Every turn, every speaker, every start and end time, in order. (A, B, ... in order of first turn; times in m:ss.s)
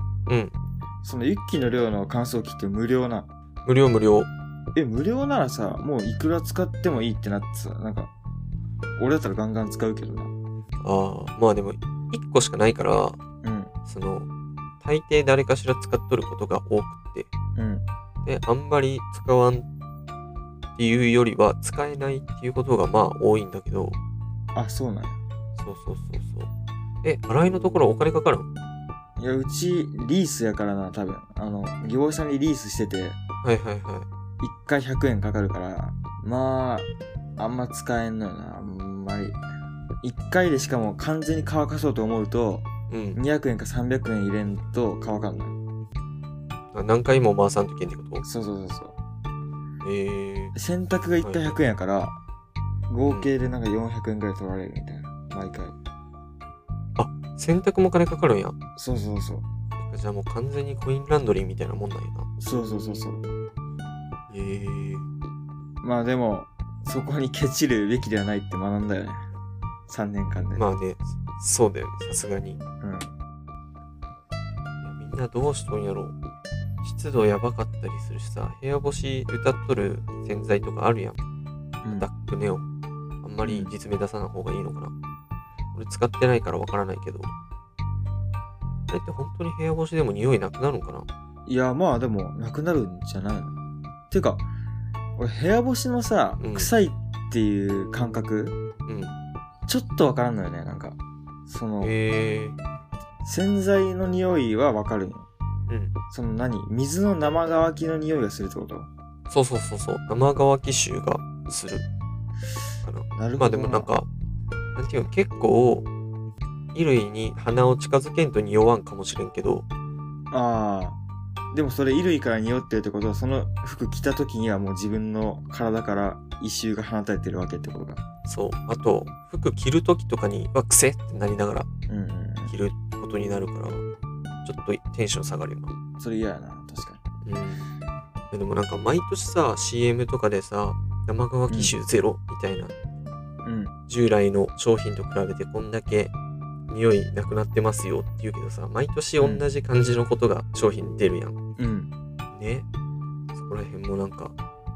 0:00.3-0:00.5 A
0:01.0-0:03.3 B
0:03.6-0:04.3 A
0:04.7-0:08.1 B
0:09.0-0:10.3 B
0:10.8-0:13.2 A
0:13.4-0:13.7 B
0:13.9-0:14.3 A
0:14.8-0:17.3 A
0:17.6-0:17.8 B
0:18.2-0:19.7 A
0:20.8-0:24.0 A
0:24.5-0:25.2 B
0:25.6-0:26.5 A
0:27.0-0:28.5 A
0:29.2-0:33.2 B
0:33.4-0:34.0 A
0:34.4-0:39.4 B
0:40.0-0:45.6 B
0:42.9-0:43.2 A
0:46.7-0:48.2 A
0:48.2-0:49.0 B
0:49.8-0:50.5 A
0:50.5-0:52.2 B
0:51.2-0:51.6 A
0:52.9-0:55.8 B
0:57.0-0:58.5 A
0:58.8-0:59.5 B
0:59.8-1:03.0 A
1:02.4-1:03.2 B
1:04.3-1:05.1 A
1:05.8-1:09.2 B
1:09.9-1:10.6 B
1:10.6-1:12.6 A
1:12.8-1:13.1 B
1:14.8-1:16.1 A
1:16.8-1:21.2 A
1:21.8-1:22.1 B
1:21.9-1:22.6 A
1:23.2-1:24.9 A
1:23.4-1:23.7 B
1:25.7-1:27.3 A
1:28.9-1:31.1 A
1:31.4-1:33.5 B
1:34.1-1:34.5 B
1:35.2-1:38.6 B
1:36.4-1:36.7 A
1:38.8-1:39.1 A
1:39.7-1:41.9 B
1:41.8-1:42.6 A
1:43.2-1:45.3 B
1:45.7-1:45.9 A
1:46.1-1:48.9 B
1:49.3-1:51.8 A
1:52.8-1:54.1 A
1:53.1-1:53.9 B
1:54.8-1:55.9 A
1:56.7-1:59.6 A
2:00.3-2:01.0 B
2:01.5-2:08.0 B
2:08.2-2:11.7 A
2:11.9-2:12.5 B
2:12.5-2:13.8 A
2:14.4-2:15.7 A
2:16.0-2:17.0 B
2:17.2-2:17.7 A
2:18.3-2:22.7 A
2:21.5-2:21.7 B
2:23.4-2:23.7 B
2:23.9-2:26.1 A
2:26.7-2:31.3 A
2:29.2-2:29.5 B
2:31.6-2:31.9 B
2:32.3-2:32.7 A
2:33.3-2:34.3 A